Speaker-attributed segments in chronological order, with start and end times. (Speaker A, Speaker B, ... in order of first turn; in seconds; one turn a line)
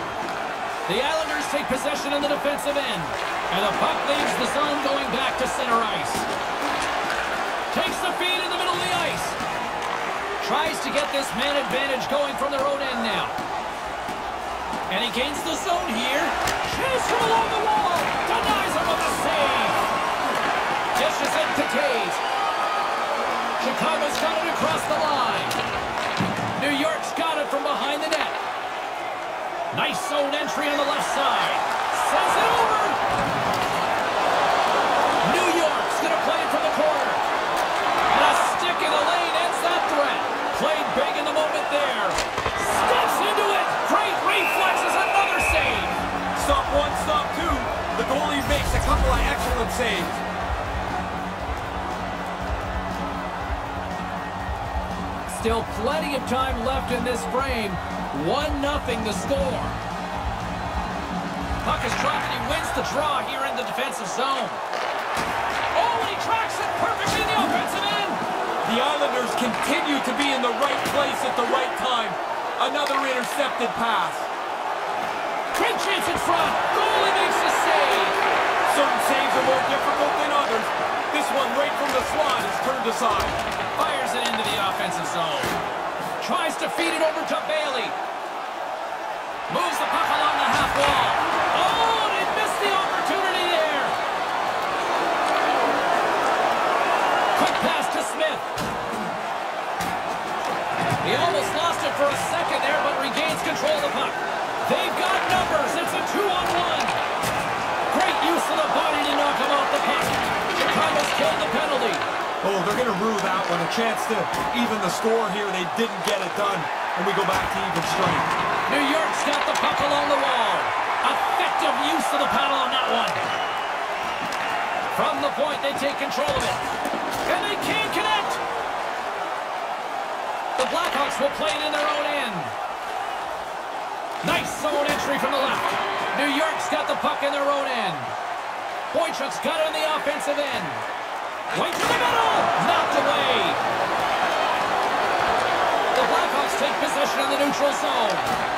Speaker A: 0.9-6.3
Speaker A: 7.7-9.4
Speaker A: 10.4-13.4
Speaker A: 14.9-19.8
Speaker A: 20.9-22.2
Speaker A: 23.6-25.6
Speaker A: 26.6-28.4
Speaker A: 29.7-33.0
Speaker A: 35.2-37.2
Speaker A: 38.1-46.0
Speaker B: 46.3-50.2
Speaker A: 55.3-59.8
Speaker A: 61.6-64.6
Speaker A: 65.7-68.2
Speaker B: 68.6-74.3
Speaker A: 75.5-78.2
Speaker B: 78.7-83.4
Speaker A: 83.8-85.6
Speaker A: 86.2-87.9
Speaker A: 89.5-94.0
Speaker A: 97.3-98.5
Speaker A: 101.0-107.0
Speaker A: 107.9-112.0
Speaker B: 112.4-118.3
Speaker A: 118.7-123.2
Speaker A: 124.9-126.6
Speaker A: 127.2-128.4
Speaker A: 130.6-132.5
Speaker A: 134.2-138.1
Speaker A: 138.9-140.8
Speaker A: 141.5-143.6
Speaker A: 145.9-148.3